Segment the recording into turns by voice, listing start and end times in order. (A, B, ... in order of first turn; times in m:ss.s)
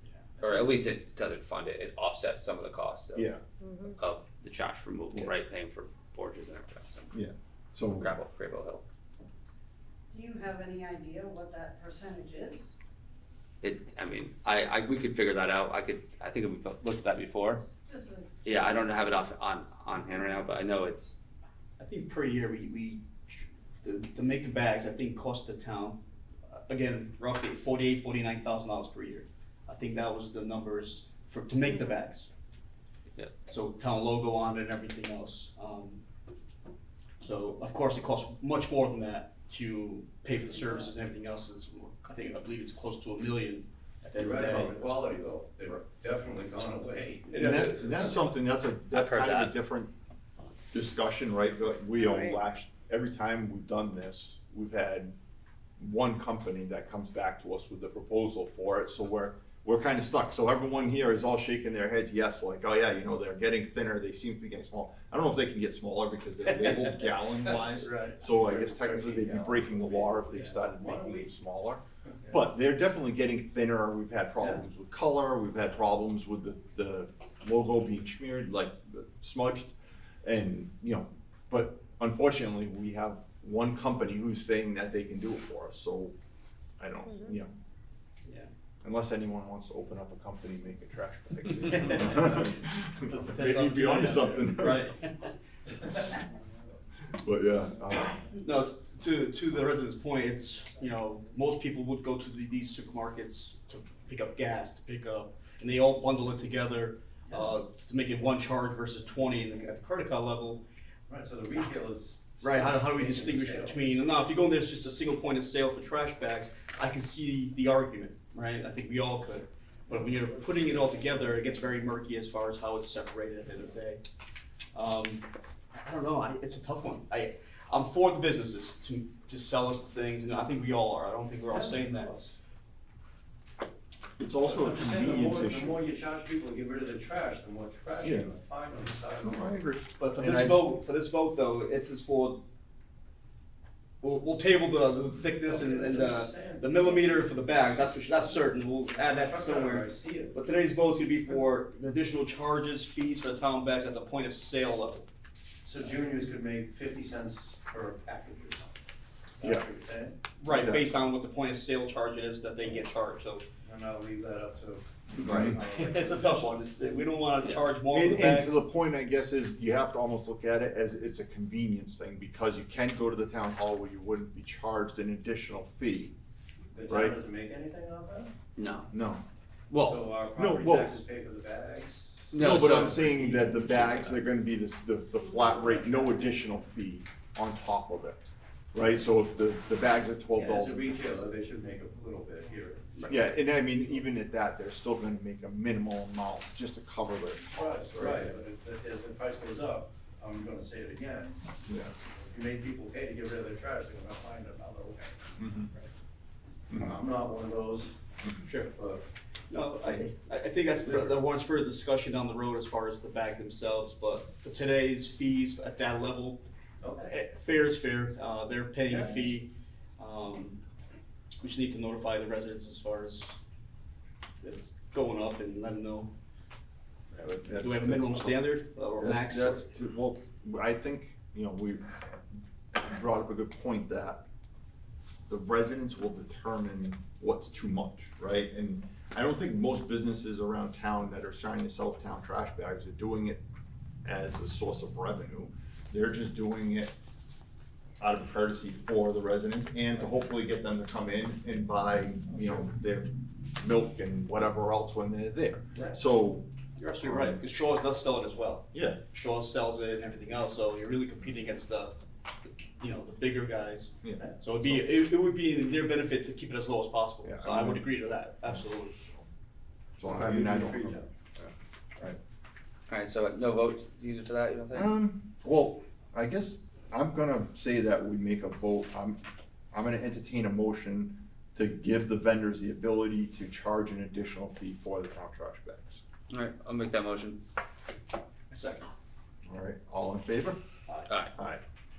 0:00.4-0:03.3 A
0:03.1-0:03.4 B
0:04.0-0:07.1 A
0:07.1-0:08.1 B
0:07.9-0:08.8 A
0:10.1-0:12.7 C
0:13.6-0:17.6 A
0:17.8-0:18.3 C
0:18.4-0:21.2 A
0:21.8-0:32.3 D
0:33.4-0:36.0 D
0:37.2-0:45.0 D
0:44.2-0:48.1 E
0:47.3-0:48.3 D
0:47.3-0:49.9 B
0:48.9-0:49.5 A
0:50.7-0:55.2 B
0:55.8-1:26.2 B
1:07.7-1:11.3 E
1:26.8-1:27.5 B
1:28.2-1:28.5 D
1:28.8-1:34.9 B
1:31.9-1:35.3 D
1:37.1-1:38.3 B
1:38.3-1:50.6 D
1:51.1-1:53.8 E
1:52.4-2:04.0 D
2:04.7-2:12.2 D
2:11.5-2:12.3 E
2:14.2-2:15.8 B
2:14.4-2:19.5 E
2:18.0-2:18.3 B
2:19.2-2:20.7 B
2:20.0-2:22.4 D
2:24.0-2:35.1 D
2:25.4-2:27.4 E
2:29.0-2:30.4 E
2:35.6-2:38.7 E
2:39.4-2:40.2 E
2:40.4-2:43.4 D
2:40.4-2:40.9 B
2:43.6-2:47.1 E
2:45.2-2:48.6 D
2:45.2-2:45.6 B
2:47.9-2:56.2 B
2:56.7-2:58.3 E
2:56.9-2:57.2 B
2:58.6-2:58.9 A
2:58.9-2:59.2 B
2:59.8-3:03.7 E
3:00.3-3:01.0 B
3:02.3-3:04.2 A
3:02.4-3:11.2 B
3:05.6-3:06.1 E
3:10.3-3:13.2 E
3:13.1-3:18.4 B
3:17.5-3:25.8 E
3:21.7-3:22.0 B
3:25.4-3:25.7 B
3:26.7-3:27.0 B
3:26.7-3:28.0 E
3:28.4-3:28.7 D
3:28.7-3:29.0 E
3:29.5-3:36.4 D
3:36.8-3:37.2 E
3:37.1-3:40.6 D
3:38.9-3:39.2 E
3:41.4-3:43.4 D
3:44.4-3:46.1 D
3:47.2-3:49.7 D
3:47.4-3:51.9 B
3:52.7-3:54.2 B
3:55.3-4:03.4 B
4:04.0-4:07.0 B
4:08.0-4:16.5 B
4:12.3-4:12.6 E
4:16.8-4:22.0 D
4:17.0-4:17.4 B
4:18.7-4:19.0 B
4:22.8-4:29.0 D
4:24.0-4:24.8 B
4:27.2-4:29.2 B
4:30.0-4:32.2 B
4:30.1-4:31.1 E
4:32.9-4:34.9 A
4:34.7-4:39.2 B
4:39.7-4:46.0 B
4:46.3-4:47.4 A
4:48.5-4:48.9 D
4:49.5-4:50.6 B
4:51.1-4:51.3 A
4:51.4-4:51.6 B